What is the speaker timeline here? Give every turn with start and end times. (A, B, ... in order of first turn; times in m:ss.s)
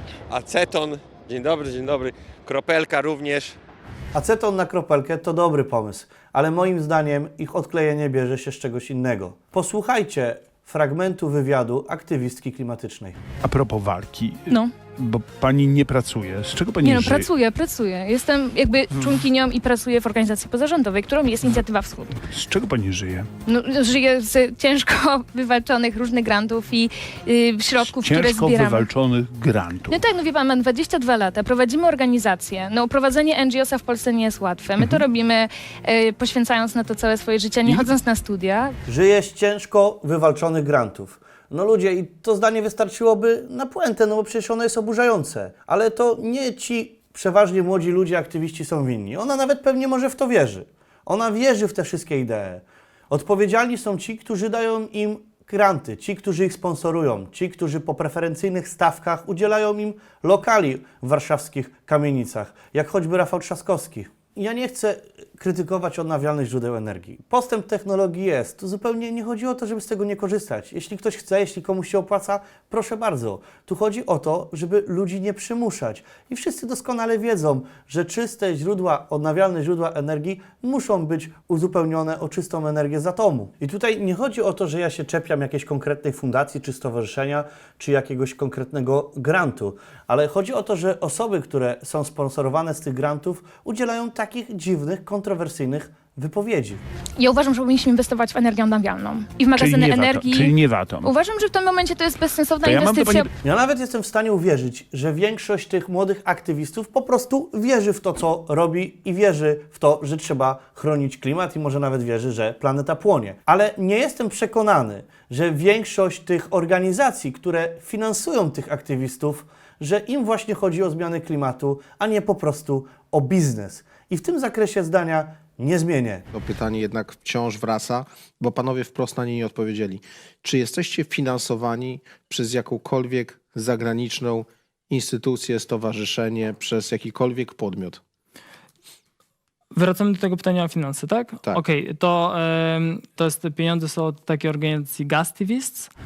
0:00.3-0:03.6 A
0:04.1-0:13.2 B
0:13.4-0:17.3 C
0:16.8-0:22.2 D
0:22.2-0:23.3 C
0:23.4-0:28.9 D
0:27.7-0:30.0 C
0:29.9-0:38.7 D
0:37.6-0:37.9 C
0:38.9-1:36.8 B
1:37.2-1:43.3 D
1:39.5-1:41.1 C
1:42.6-1:43.3 C
1:43.4-2:06.2 B
2:06.3-2:18.0 E
2:19.7-2:25.9 F